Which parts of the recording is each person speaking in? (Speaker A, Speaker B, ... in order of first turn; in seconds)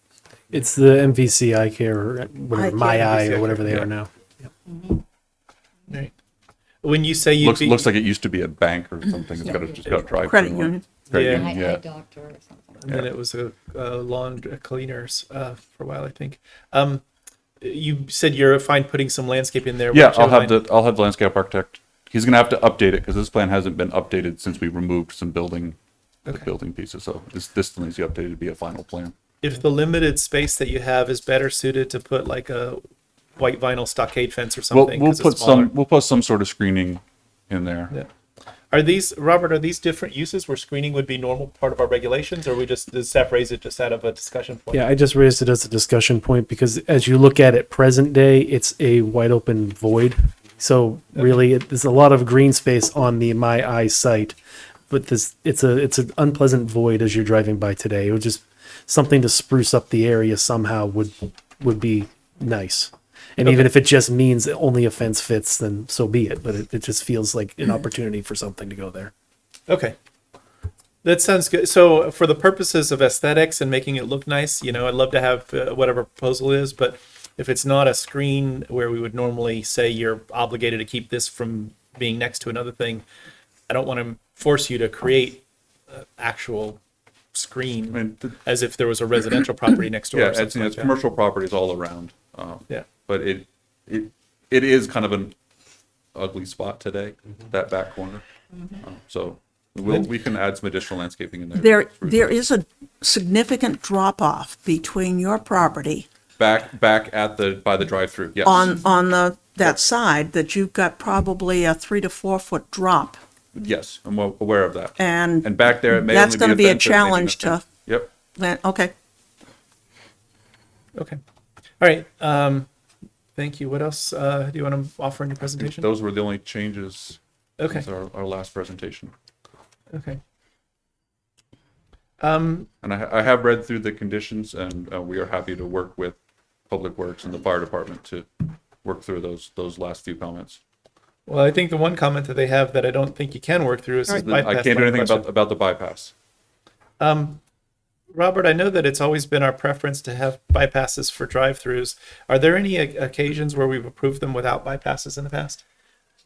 Speaker A: 0.5-4.5, 44.7-54.4, 54.9-69.1
Speaker B: 2.5-3.2, 10.1-10.9, 101.6-106.1, 108.4-113.2, 115.0-117.7, 118.3-118.9
Speaker C: 2.9-3.9, 6.8-7.9, 11.1-11.5, 12.8-17.0, 17.6-20.6, 29.4-32.8, 33.4-35.7, 38.7-44.8, 63.4-63.7, 69.7-70.0, 71.0-83.0, 83.7-86.8, 87.3-90.9, 121.0-121.2, 121.8-122.7, 123.4-125.9, 127.6-127.9, 129.9-130.2, 132.2-132.7, 141.3-145.3, 147.0-147.4, 148.1-155.6
Speaker D: 4.7-5.0, 9.5-10.3, 11.2-12.9
Speaker E: 7.4-11.8, 19.9-29.1, 34.7-37.9, 87.9-88.4, 90.1-95.3, 96.1-98.2, 98.8-102.4, 106.4-108.8, 113.5-118.1, 125.6-127.2, 127.7-129.1, 132.8-136.2, 136.7-140.6, 144.1-146.1